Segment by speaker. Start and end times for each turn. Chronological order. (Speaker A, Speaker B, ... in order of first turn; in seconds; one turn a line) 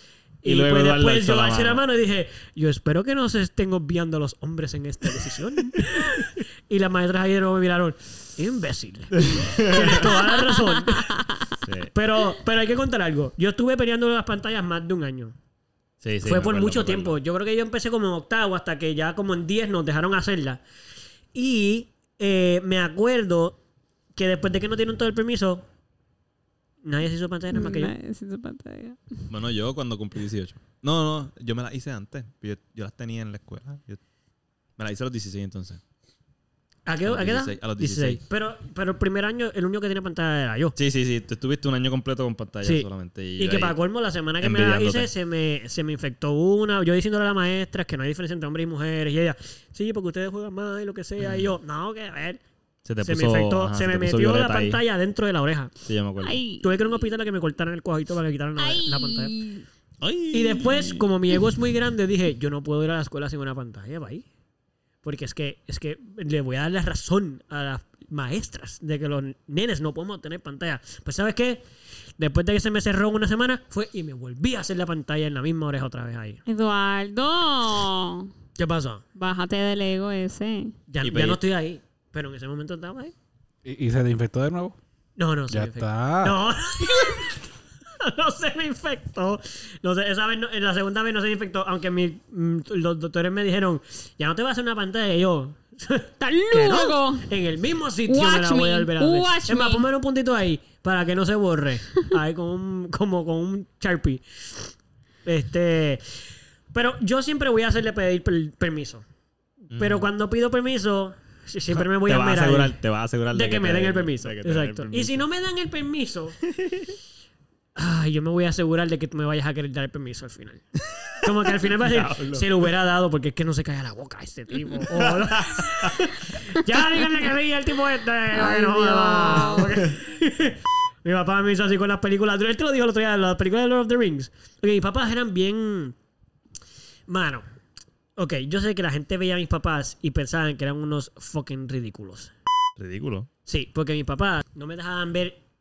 Speaker A: 0.4-11.2
Speaker B: 0.4-1.8
Speaker B: 9.2-10.1
Speaker C: 10.3-11.2
Speaker B: 11.6-11.9
Speaker A: 11.9-15.3
Speaker B: 16.0-17.2
Speaker A: 16.2-20.6
Speaker A: 21.4-23.6
Speaker A: 24.2-25.6
Speaker A: 26.8-27.9
Speaker C: 27.5-29.0
Speaker B: 29.3-34.0
Speaker B: 34.8-35.8
Speaker A: 36.9-40.8
Speaker B: 37.0-38.2
Speaker B: 40.8-43.8
Speaker A: 42.6-52.4
Speaker B: 44.4-45.1
Speaker B: 51.2-51.5
Speaker B: 52.9-54.8
Speaker A: 53.0-55.7
Speaker B: 55.9-56.4
Speaker C: 56.2-57.0
Speaker A: 56.6-59.4
Speaker C: 58.6-59.6
Speaker B: 60.0-61.1
Speaker A: 60.3-64.2
Speaker A: 65.0-71.6
Speaker A: 72.2-76.4
Speaker C: 76.5-78.3
Speaker A: 78.6-79.0
Speaker C: 79.2-80.8
Speaker A: 80.9-83.1
Speaker B: 81.0-81.4
Speaker D: 83.6-84.8
Speaker A: 85.2-87.5
Speaker D: 85.5-86.4
Speaker A: 88.0-104.7
Speaker C: 96.2-97.3
Speaker C: 98.1-99.8
Speaker A: 105.2-106.0
Speaker A: 106.7-109.0
Speaker A: 109.7-112.8
Speaker B: 109.7-110.1
Speaker B: 111.7-115.2
Speaker A: 113.3-116.4
Speaker B: 116.5-116.9
Speaker A: 117.8-120.7
Speaker A: 121.2-135.9
Speaker B: 121.6-122.5
Speaker B: 124.9-126.0
Speaker C: 128.3-129.8
Speaker A: 137.1-137.4
Speaker A: 138.2-142.3
Speaker B: 142.8-143.3
Speaker A: 143.5-145.4